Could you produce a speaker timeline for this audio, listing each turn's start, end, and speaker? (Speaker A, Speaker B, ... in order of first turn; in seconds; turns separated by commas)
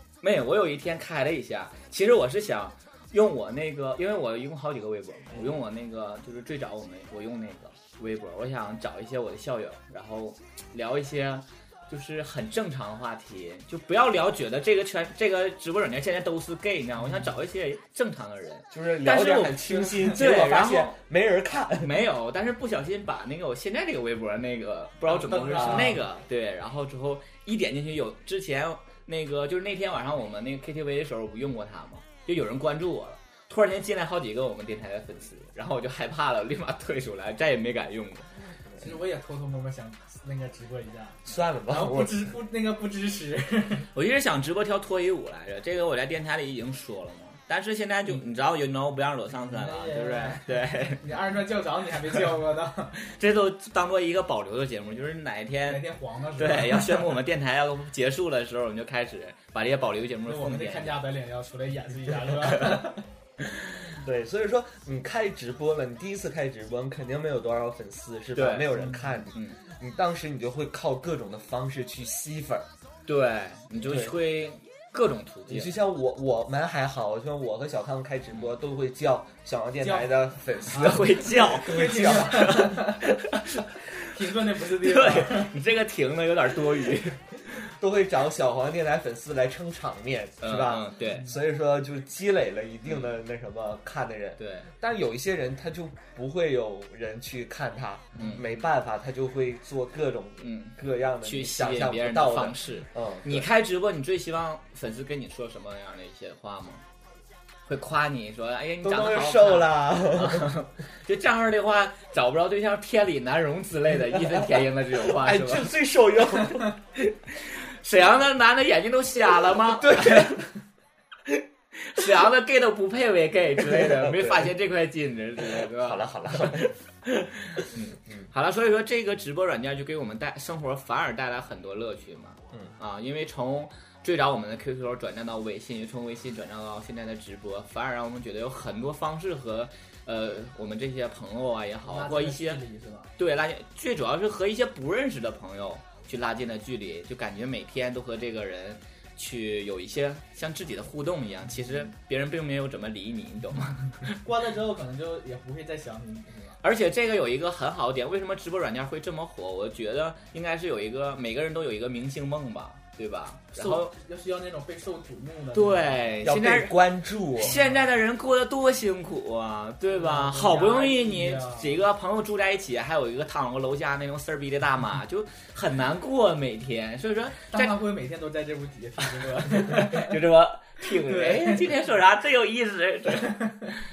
Speaker A: 0.2-20.9, Speaker B: 18.7-21.9, Speaker C: 19.7-20.2, Speaker A: 21.8-38.3, Speaker C: 25.1-26.0, Speaker B: 25.6-26.0, Speaker C: 38.8-43.9, Speaker B: 41.2-42.3, Speaker A: 43.9-51.0, Speaker C: 49.4-53.0, Speaker A: 53.0-55.9, Speaker C: 55.7-57.2, Speaker A: 56.4-61.0, Speaker C: 60.3-63.1, Speaker B: 63.9-72.7, Speaker A: 68.3-68.7, Speaker A: 73.1-75.8, Speaker B: 73.8-74.2, Speaker B: 75.5-82.7, Speaker C: 79.8-83.0, Speaker A: 80.7-83.6, Speaker C: 84.0-85.6, Speaker A: 84.8-87.2, Speaker B: 87.7-103.5, Speaker A: 90.4-91.3, Speaker A: 94.4-94.7, Speaker A: 100.4-106.8, Speaker A: 107.7-115.7, Speaker B: 108.8-110.6, Speaker B: 115.0-116.7, Speaker A: 117.3-120.5, Speaker B: 119.8-120.5, Speaker A: 121.8-142.6, Speaker B: 123.7-124.5, Speaker B: 125.6-126.7, Speaker C: 141.8-143.1, Speaker A: 143.2-154.2, Speaker C: 154.1-156.6, Speaker A: 156.6-163.9, Speaker C: 163.5-166.2, Speaker A: 165.5-166.8, Speaker B: 166.2-167.6, Speaker A: 167.4-177.8, Speaker C: 167.5-167.8, Speaker C: 169.9-171.8, Speaker C: 177.5-180.2, Speaker A: 179.4-183.7, Speaker C: 180.9-181.8